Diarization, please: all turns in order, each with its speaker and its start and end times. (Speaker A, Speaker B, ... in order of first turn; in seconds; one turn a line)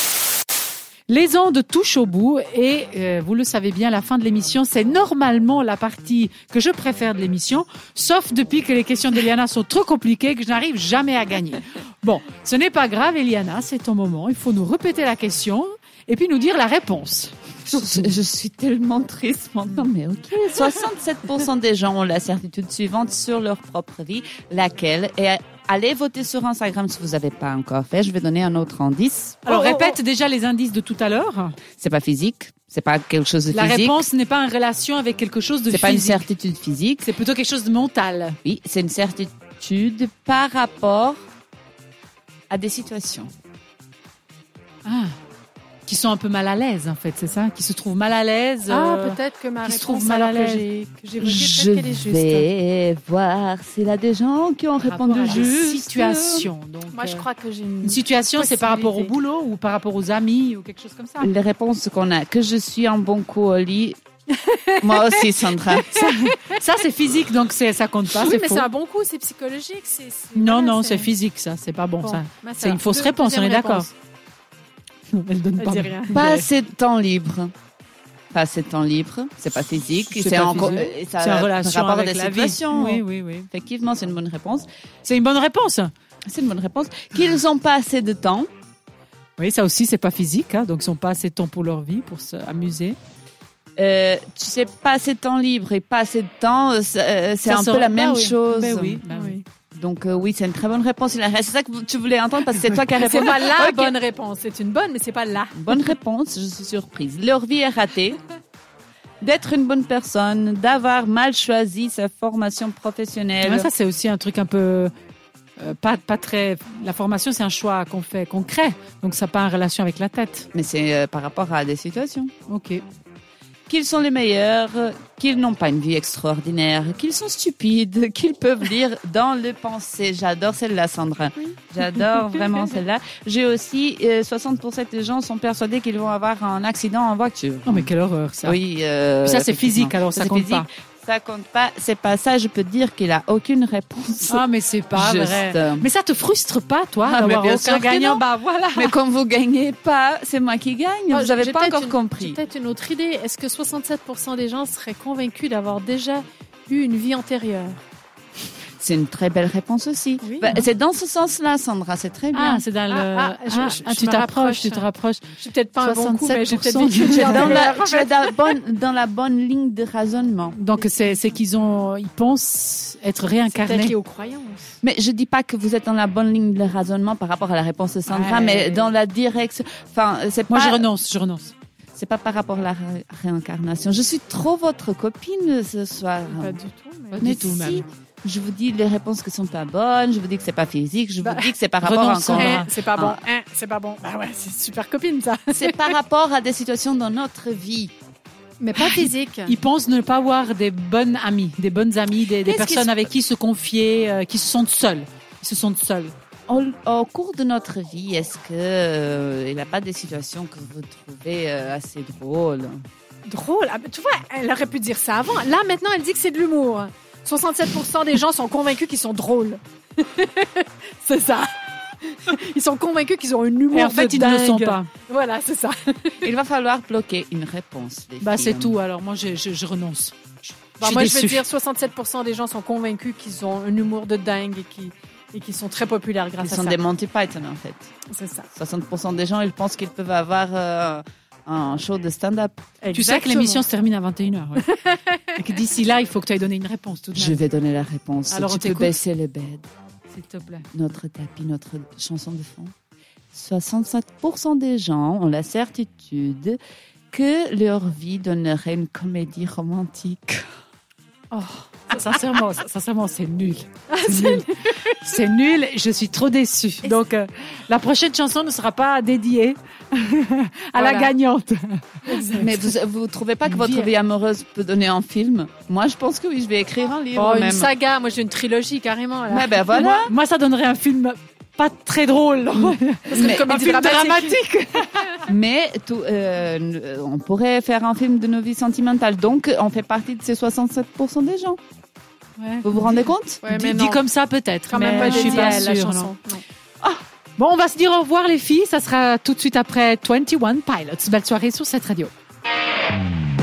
Speaker A: 1.1-18.1
Speaker B: 17.7-30.0
Speaker A: 29.4-31.6
Speaker B: 31.7-34.0
Speaker A: 33.5-36.2
Speaker B: 35.7-37.1
Speaker A: 37.0-38.4
Speaker B: 38.4-41.2
Speaker B: 42.5-43.3
Speaker A: 44.8-45.1
Speaker A: 45.9-50.6
Speaker C: 48.7-52.5
Speaker B: 51.2-56.5
Speaker A: 54.8-57.2
Speaker C: 55.1-55.5
Speaker C: 56.9-59.1
Speaker A: 57.8-61.3
Speaker B: 61.2-64.0
Speaker C: 64.4-66.6
Speaker B: 64.8-66.0
Speaker A: 65.9-68.7
Speaker C: 68.2-71.1
Speaker A: 70.3-73.9
Speaker C: 72.0-73.9
Speaker A: 75.1-76.5
Speaker C: 75.6-76.2
Speaker B: 76.1-77.5
Speaker B: 78.3-84.7
Speaker A: 80.1-83.5
Speaker A: 85.0-85.9
Speaker B: 86.3-88.5
Speaker A: 89.4-93.0
Speaker B: 93.8-99.0
Speaker A: 97.5-99.4
Speaker C: 99.1-99.4
Speaker B: 99.7-103.9
Speaker C: 102.9-105.9
Speaker B: 105.5-108.2
Speaker B: 109.2-113.7
Speaker A: 113.4-114.9
Speaker A: 115.6-120.5
Speaker B: 120.5-122.3
Speaker A: 122.5-122.8
Speaker B: 123.7-137.9
Speaker A: 137.6-138.6
Speaker B: 138.4-144.4
Speaker A: 139.2-140.7
Speaker A: 144.3-149.0
Speaker B: 144.9-145.9
Speaker B: 147.0-152.4
Speaker C: 151.1-157.8
Speaker B: 158.8-162.6
Speaker C: 160.2-160.6
Speaker A: 162.3-167.7
Speaker C: 162.9-168.6
Speaker B: 167.1-170.6
Speaker A: 170.5-173.9
Speaker C: 173.5-174.7
Speaker B: 174.8-180.8
Speaker A: 178.1-178.9
Speaker A: 180.5-181.5
Speaker B: 181.9-186.6
Speaker C: 186.3-187.2
Speaker A: 187.1-187.8
Speaker B: 187.2-193.2
Speaker C: 191.2-191.5
Speaker A: 191.8-192.7
Speaker C: 192.3-196.0
Speaker B: 195.5-197.9
Speaker C: 198.6-199.6
Speaker A: 198.8-206.1
Speaker C: 202.4-202.9
Speaker B: 206.5-212.8
Speaker C: 213.2-226.3
Speaker A: 223.7-224.9
Speaker B: 226.2-228.8
Speaker A: 228.2-230.2
Speaker A: 230.8-231.4
Speaker C: 230.8-236.8
Speaker B: 236.4-237.9
Speaker C: 238.1-238.5
Speaker B: 238.6-242.6
Speaker C: 242.8-243.6
Speaker A: 242.9-244.7
Speaker C: 244.6-245.2
Speaker A: 245.3-247.4
Speaker B: 247.1-249.7
Speaker A: 248.3-249.0
Speaker A: 250.1-250.6
Speaker B: 250.7-252.7
Speaker B: 253.3-256.6
Speaker B: 257.1-260.4
Speaker C: 261.3-261.6
Speaker A: 261.9-272.3
Speaker C: 263.9-265.0
Speaker C: 270.7-271.1
Speaker C: 272.1-272.5
Speaker B: 272.3-277.7
Speaker A: 273.4-273.9
Speaker C: 277.1-280.0
Speaker B: 279.3-280.1
Speaker A: 279.7-285.2
Speaker B: 282.5-283.4
Speaker C: 283.1-285.2
Speaker B: 285.2-291.6
Speaker A: 292.4-292.6
Speaker B: 292.6-293.4
Speaker C: 293.4-294.0
Speaker A: 293.5-296.1
Speaker C: 294.7-296.4
Speaker B: 294.9-295.5
Speaker A: 296.8-302.1